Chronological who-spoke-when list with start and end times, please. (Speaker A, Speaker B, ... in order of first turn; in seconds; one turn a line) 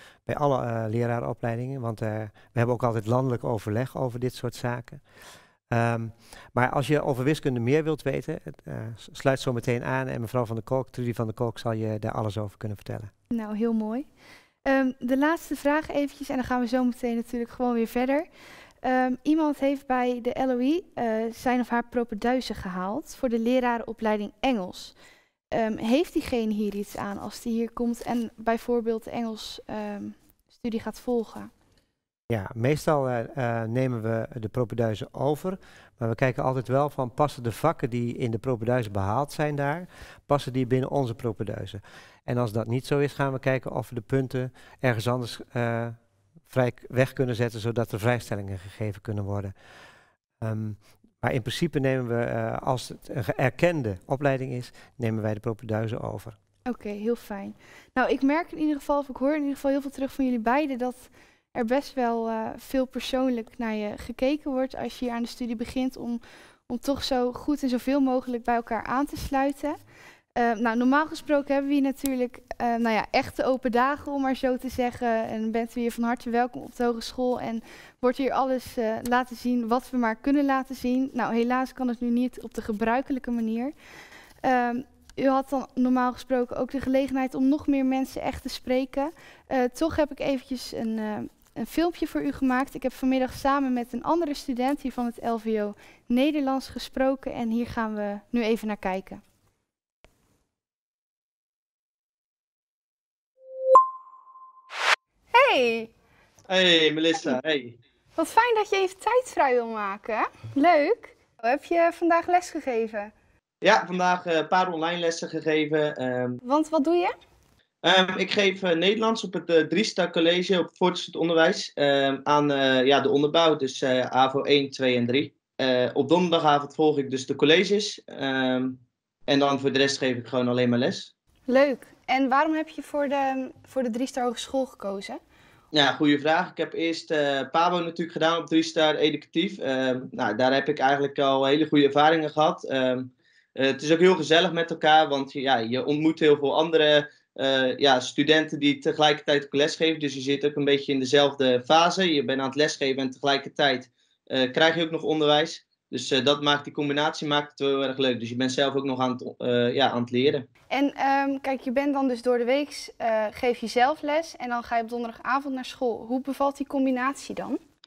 Speaker A: 0.2-5.0
Speaker A: 5.7-13.1
Speaker B: 13.3-14.1
Speaker B: 14.7-18.3
Speaker B: 18.8-24.9
Speaker B: 25.5-31.5
Speaker A: 32.3-46.0
Speaker A: 46.5-49.5
Speaker A: 50.4-56.4
Speaker B: 56.7-69.8
Speaker B: 70.3-83.7
Speaker B: 84.4-99.2
Speaker B: 105.3-105.9
Speaker C: 106.5-107.8
Speaker B: 108.2-113.1
Speaker C: 113.6-116.4
Speaker B: 116.4-117.1
Speaker C: 117.8-131.1
Speaker B: 131.5-135.2
Speaker C: 135.7-160.5
Speaker B: 160.7-167.6